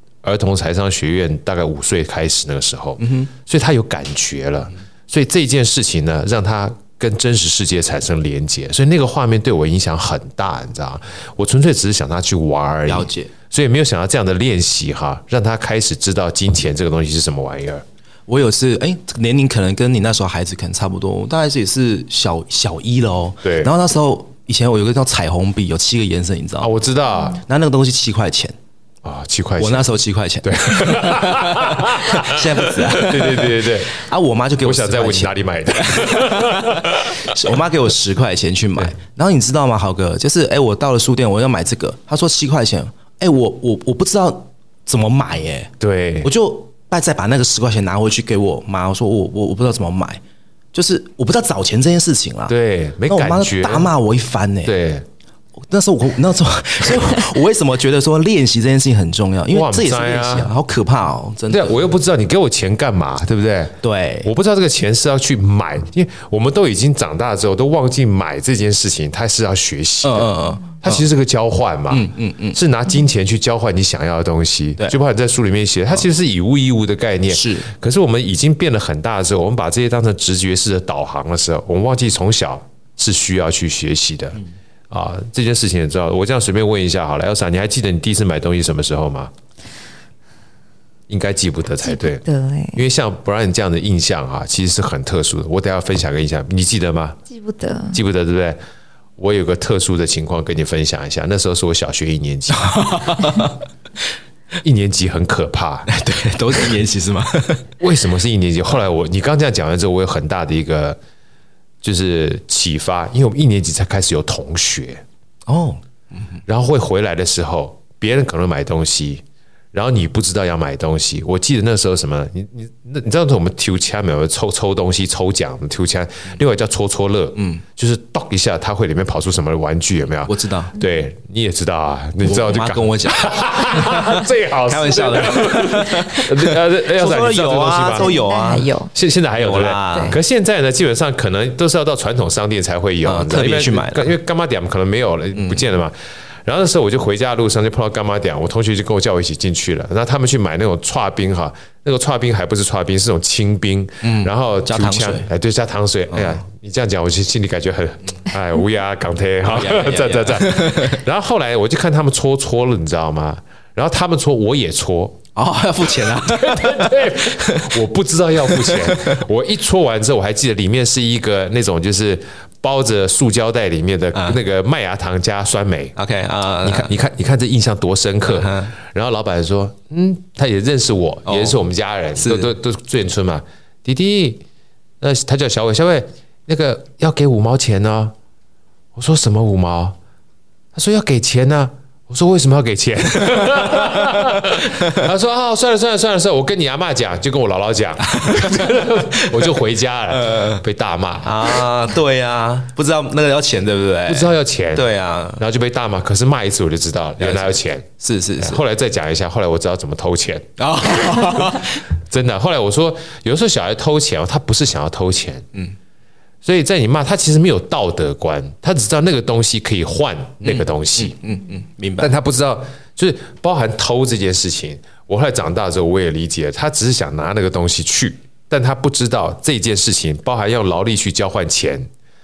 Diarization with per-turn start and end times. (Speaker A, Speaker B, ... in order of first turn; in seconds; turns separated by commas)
Speaker A: 0.2-17.8, Speaker B: 3.0-3.3, Speaker B: 12.9-13.3, Speaker B: 18.3-26.7, Speaker A: 23.4-23.7, Speaker A: 26.6-27.4, Speaker B: 27.4-28.6, Speaker A: 29.0-29.9, Speaker B: 29.6-45.7, Speaker A: 30.4-34.0, Speaker A: 34.6-37.5, Speaker A: 45.8-46.3, Speaker B: 46.2-50.2, Speaker B: 50.7-52.5, Speaker A: 52.5-53.9, Speaker B: 53.1-54.7, Speaker A: 54.6-55.1, Speaker B: 55.7-61.8, Speaker A: 59.5-60.5, Speaker A: 61.5-89.3, Speaker B: 63.8-64.3, Speaker B: 70.0-71.1, Speaker B: 71.9-72.6, Speaker B: 77.3-77.7, Speaker A: 91.1-97.2, Speaker C: 91.8-92.8, Speaker C: 97.3-98.0, Speaker A: 97.9-98.6, Speaker A: 99.2-103.2, Speaker B: 102.5-103.6, Speaker A: 104.6-105.9, Speaker B: 105.9-107.7, Speaker A: 107.8-111.0, Speaker A: 111.8-115.0, Speaker B: 115.5-116.4, Speaker A: 116.5-138.1, Speaker B: 127.4-127.6, Speaker B: 130.3-130.7, Speaker B: 132.2-138.7, Speaker C: 137.9-138.9, Speaker A: 138.9-145.9, Speaker B: 139.4-140.2, Speaker B: 143.0-144.1, Speaker B: 145.3-145.7, Speaker A: 146.4-165.2, Speaker B: 154.0-155.3, Speaker B: 156.1-156.4, Speaker B: 159.5-161.0, Speaker B: 165.4-167.8, Speaker A: 165.9-175.9, Speaker B: 168.4-169.2, Speaker B: 174.1-174.4, Speaker B: 176.0-176.9, Speaker A: 176.6-184.4, Speaker B: 178.3-178.7, Speaker B: 181.3-181.6, Speaker B: 182.2-182.5, Speaker A: 185.0-188.1, Speaker A: 188.9-190.0, Speaker A: 190.7-201.7, Speaker B: 193.3-195.0, Speaker B: 198.1-199.6, Speaker B: 200.1-200.6, Speaker B: 201.2-205.4, Speaker A: 204.1-204.9, Speaker A: 205.4-210.5, Speaker B: 207.2-208.6, Speaker B: 210.6-211.8, Speaker A: 211.3-211.5, Speaker A: 212.1-215.5, Speaker A: 216.4-221.2, Speaker B: 220.4-222.1, Speaker A: 222.0-231.9